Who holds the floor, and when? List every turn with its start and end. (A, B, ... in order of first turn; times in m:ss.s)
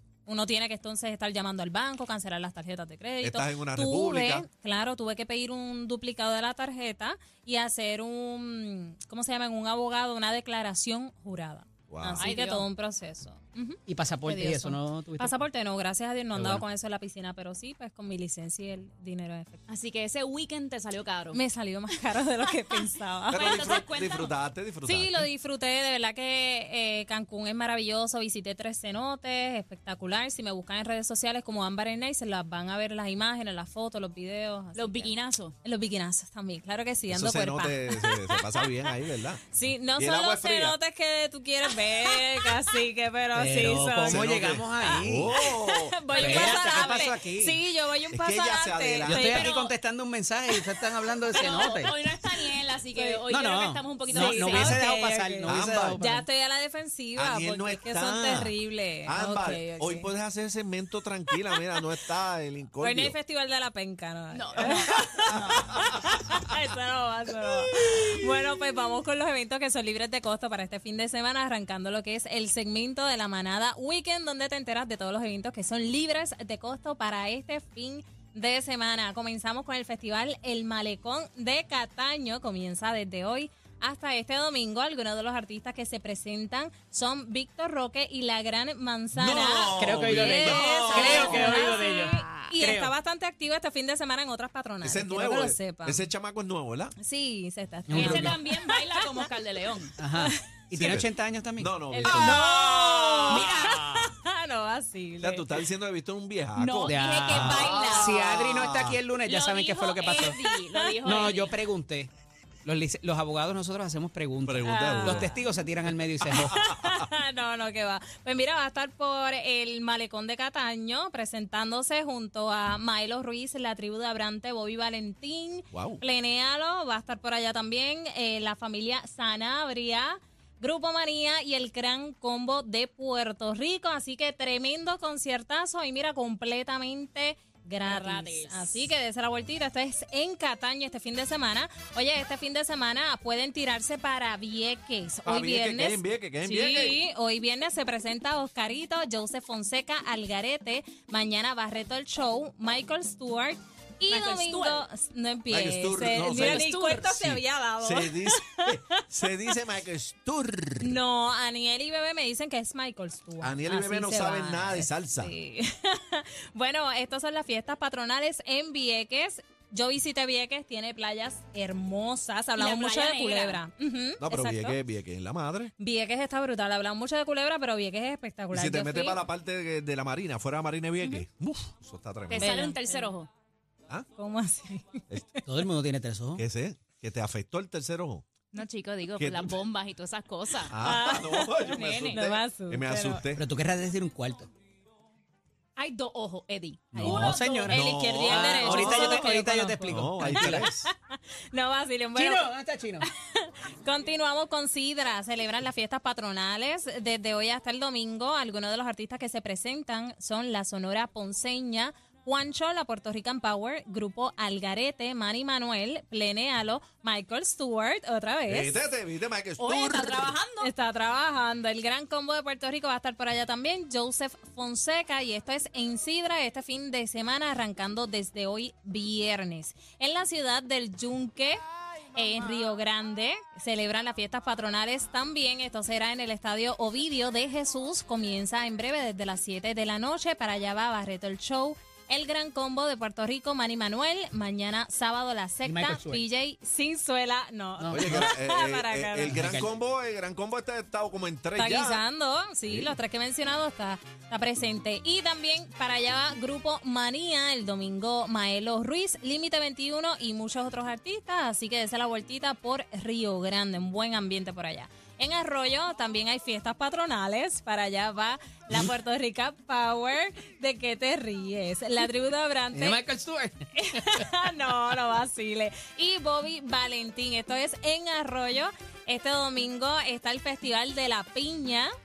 0:00.3-0:19.6 A
0:03.2-0:04.5 B
0:11.9-0:12.3 B
0:12.2-0:12.7 C
0:13.9-0:15.3 D
0:16.4-0:16.6 D
0:19.7-0:21.4 C
0:21.3-0:23.8 A
0:23.3-0:25.3 B
0:23.3-0:24.3 C
0:24.8-0:35.1 A
0:34.8-0:35.6 C
0:35.6-0:38.7 A
0:37.1-0:39.4 B
0:39.5-0:44.3 A
0:40.0-0:40.8 B
0:43.3-0:45.4 D
0:44.0-0:46.8 B
0:44.8-0:49.6 A
0:46.2-0:47.6 D
0:48.1-0:49.3 B
0:49.0-0:51.9 D
0:49.2-0:49.8 C
0:50.5-0:50.9 A
0:51.3-0:54.8 C
0:52.9-0:53.2 A
0:53.3-0:56.3 D
0:54.1-1:00.1 A
0:55.4-0:56.0 B
0:57.2-1:03.2 B
1:02.8-1:36.1 A
1:04.3-1:05.7 C
1:29.1-1:31.6 B
1:29.8-1:32.9 D
1:31.0-1:32.5 C
1:34.8-1:37.0 B
1:37.0-1:39.3 A
1:37.9-1:38.4 D
1:37.9-1:40.0 C
1:40.0-1:41.8 D
1:40.2-1:41.0 A
1:40.7-1:43.8 B
1:41.9-1:45.6 A
1:42.0-1:42.5 C
1:43.3-1:44.0 C
1:45.2-1:49.0 B
1:46.6-1:48.2 A
1:46.6-1:48.2 C
1:46.9-1:50.4 D
1:49.2-1:51.6 C
1:50.0-1:50.9 A
1:51.0-1:52.1 D
1:52.6-1:56.6 D
1:54.4-1:55.4 B
1:54.6-1:55.4 A
1:56.3-2:39.0 A
1:56.4-1:57.1 B
2:05.7-2:06.0 B
2:17.8-2:18.9 C
2:25.2-2:27.0 B
2:34.1-2:34.9 C
2:35.5-2:41.0 B
2:36.2-2:37.2 C
2:40.8-2:54.8 A
2:43.4-2:45.3 B
2:52.6-2:53.6 C
2:54.2-2:55.7 B
2:55.8-2:59.2 A
2:58.5-3:02.5 B
3:02.3-3:03.3 C
3:02.4-3:03.1 A
3:04.2-3:05.4 A
3:05.5-3:06.4 D
3:06.4-3:08.2 B
3:08.5-3:10.7 C
3:09.2-3:09.6 B
3:10.7-3:13.5 B
3:10.8-3:13.2 A
3:11.7-3:12.2 C
3:13.4-3:14.5 D
3:15.8-3:17.8 C
3:16.9-3:22.5 A
3:17.0-3:20.7 D
3:17.7-3:20.9 B
3:22.2-3:23.1 D
3:23.0-3:38.8 A
3:38.5-3:40.4 B
3:39.6-3:40.7 C
3:40.6-3:51.6 A
3:52.1-4:09.6 A
4:05.6-4:06.2 D
4:07.8-4:08.3 D
4:07.9-4:12.0 B
4:09.3-4:09.7 D
4:11.6-4:33.0 A
4:12.7-4:13.0 B
4:32.7-4:34.2 D
4:33.7-4:41.9 A